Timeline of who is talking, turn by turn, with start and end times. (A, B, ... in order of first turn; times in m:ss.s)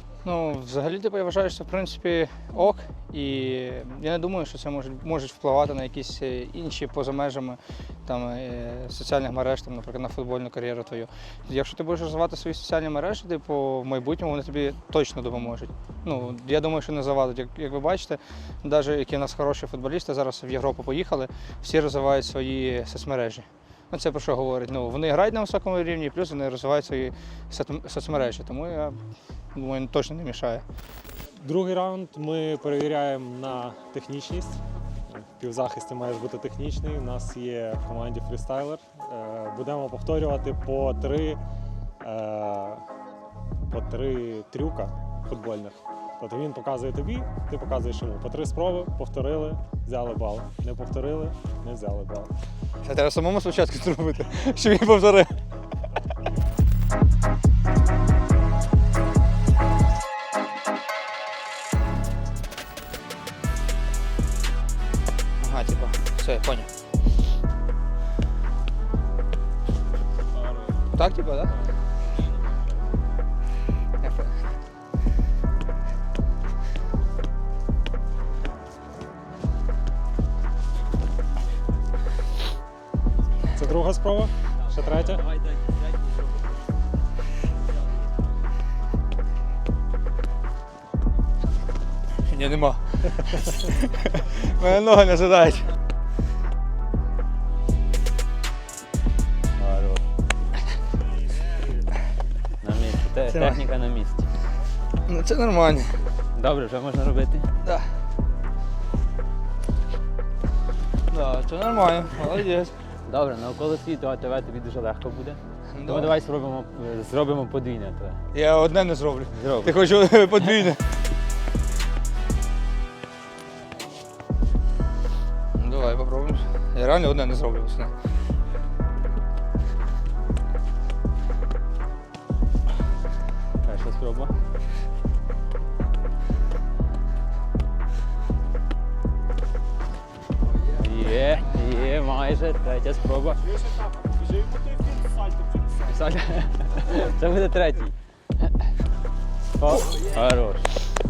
0:00.2-0:29.0 A
0:29.5-0:30.6 A
0:31.4-0:41.4 B
0:42.0-0:42.8 B
0:43.7-0:52.3 B
0:52.8-0:55.3 A
1:05.4-1:06.7 A
1:10.9-1:11.5 A
1:14.0-1:14.4 A
1:23.5-1:25.3 B
1:32.3-1:35.7 A
1:39.6-1:40.0 C
1:42.6-1:44.2 C
1:43.3-1:43.6 A
1:45.0-1:46.0 A
1:46.3-1:47.4 C
1:51.1-1:52.7 A
1:53.1-1:58.2 C
1:55.7-1:56.1 A
1:58.3-2:00.8 A
1:59.3-1:59.7 C
2:05.6-2:07.9 A
2:13.6-2:14.3 C
2:20.8-2:23.4 C
2:25.9-2:27.9 C
2:29.6-2:30.8 C